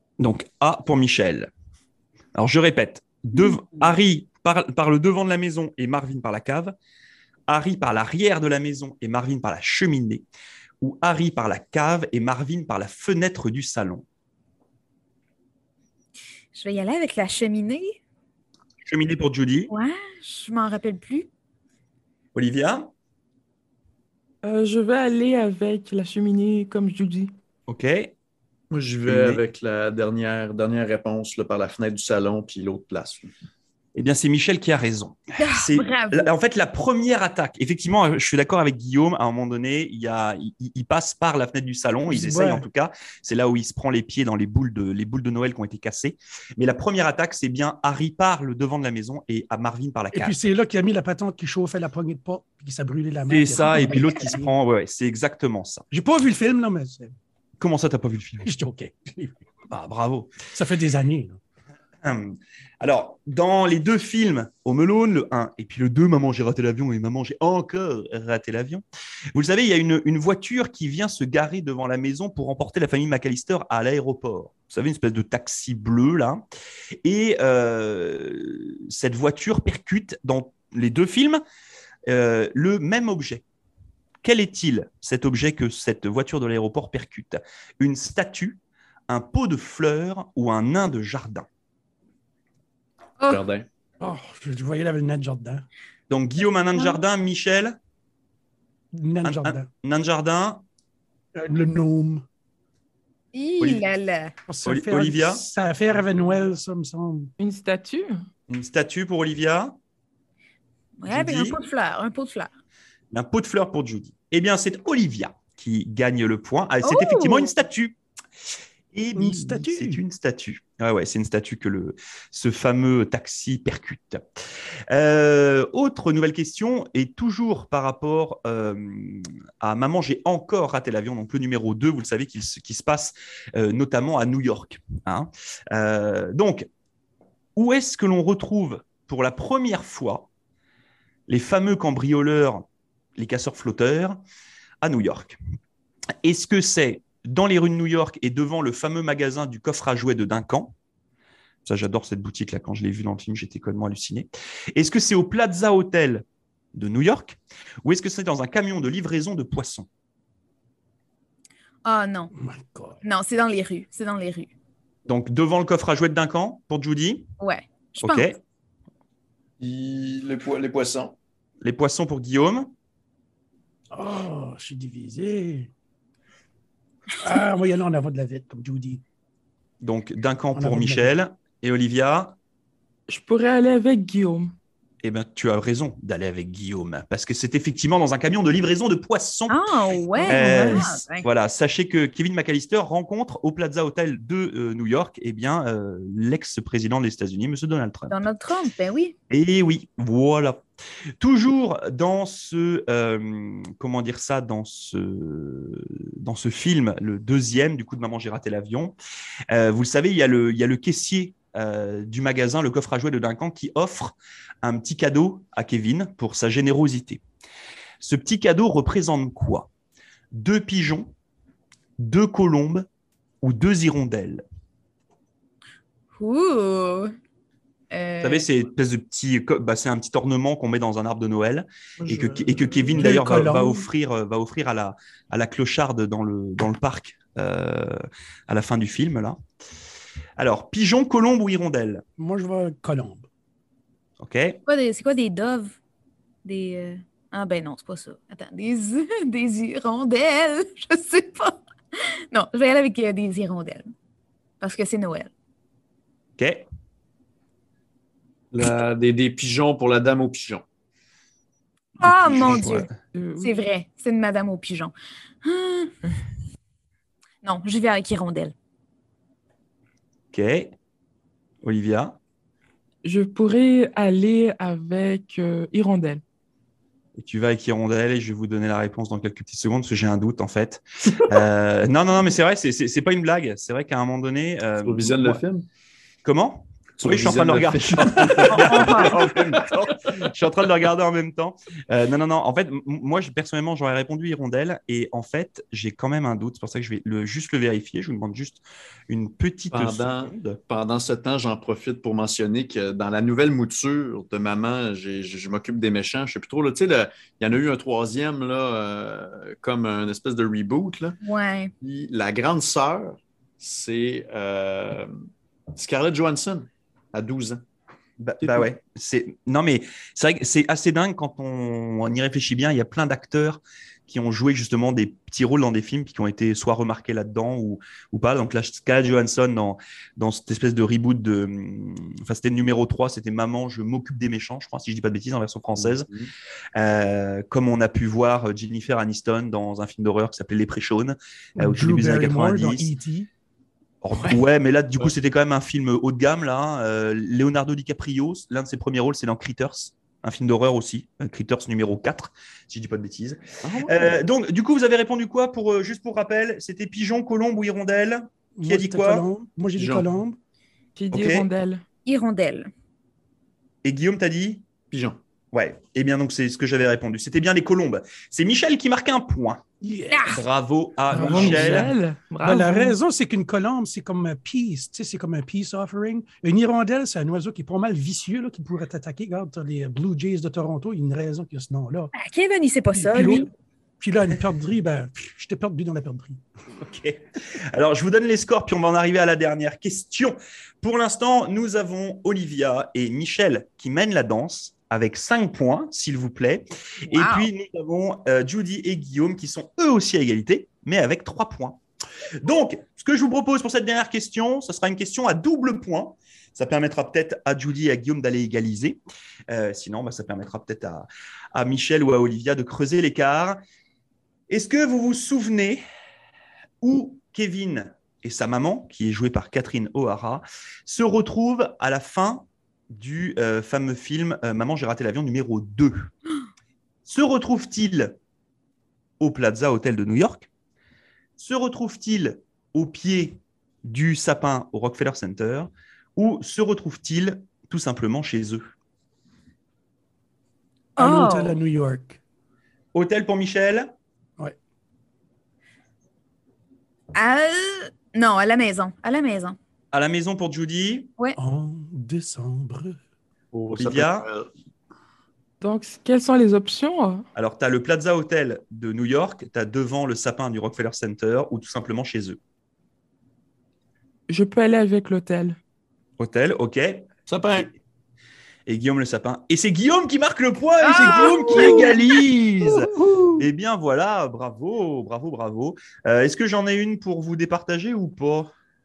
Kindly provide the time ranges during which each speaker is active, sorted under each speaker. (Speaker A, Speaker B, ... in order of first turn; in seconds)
Speaker A: 0.2-1.5, 2.4-6.7, 7.5-10.2, 10.8-14.0, 18.8-19.7, 22.3-22.9, 27.7-28.1, 29.1-29.4, 33.9-50.4, 53.3-55.8, 57.6-58.5, 59.7-60.3, 62.0-68.8, 69.3-76.4, 77.0-81.4, 82.1-83.4, 84.2-91.5, 96.1-97.8, 99.2-100.6, 103.6-103.8, 104.6-105.4, 108.5-109.7, 111.1-111.6, 113.1-118.0, 118.9-124.2, 124.9-136.7, 137.6-140.3, 141.3-142.6, 143.2-144.2, 144.8-145.4, 146.2-150.7, 151.6-156.2, 156.7-159.9, 165.1-167.3, 168.0-168.3, 171.6-172.7, 179.8-182.3, 185.0-189.6, 190.2-198.2, 199.3-200.6, 201.2-208.9, 209.5-217.2, 218.0-219.7, 220.3-221.1, 222.0-222.8, 223.4-224.4, 228.2-239.4, 240.4-242.0, 244.2-244.6, 256.4-256.6, 262.0-262.9, 270.3-270.7, 271.6-272.2, 277.2-285.4, 286.2-300.6, 318.2-336.1, 336.8-342.9, 344.0-359.2, 361.1-361.5, 363.8-364.6, 365.5-369.6, 370.3-371.9, 386.8-401.8, 402.4-413.6, 414.5-415.8, 416.8-426.1, 427.0-428.1, 429.2-430.5, 431.4-438.7, 442.9-443.9, 449.9-451.1, 453.7-454.3, 457.4-462.4, 466.2-467.7, 468.7-478.5
Speaker B: 16.5-18.0, 19.7-21.3, 35.4-36.3, 103.3-104.3, 111.0-112.5, 116.8-117.5, 161.8-162.3, 163.0-164.5, 167.4-168.3, 189.5-191.2, 198.1-199.1, 226.2-227.1, 227.9-228.4, 244.7-245.8, 246.4-251.6, 252.3-253.9, 254.6-255.3, 262.0-262.9, 263.4-264.9, 265.4-265.9, 267.4-268.5, 311.2-311.7, 362.1-362.7, 370.1-370.4, 382.1-383.5, 397.1-397.5, 441.0-441.6, 447.1-449.6, 470.8-472.0
Speaker C: 24.4-27.3, 107.4-108.1, 183.1-184.5, 263.1-263.6, 273.0-276.2, 360.9-361.8, 371.1-372.9, 455.6-457.2, 464.3-465.6
Speaker D: 28.7-33.3, 93.2-93.7, 169.6-171.1, 258.5-260.6, 284.8-285.6, 287.0-289.2, 299.7-311.2, 311.8-315.1, 315.8-317.6, 318.4-318.7, 335.7-336.3, 353.6-354.2, 359.8-360.1, 364.9-365.2, 453.5-454.5, 467.3-467.7
Speaker E: 42.1-42.6, 50.1-54.5, 55.9-57.1, 58.4-59.4, 60.5-61.4, 94.0-95.6, 98.9-99.7, 101.3-102.2, 104.5-107.3, 119.2-120.0, 162.3-163.0, 173.9-175.7, 177.2-179.0, 180.5-181.2, 232.0-233.9, 242.2-243.2, 341.6-343.3, 358.6-360.4, 369.8-370.3, 371.1-382.1, 382.9-386.4, 441.0-442.2, 451.4-452.9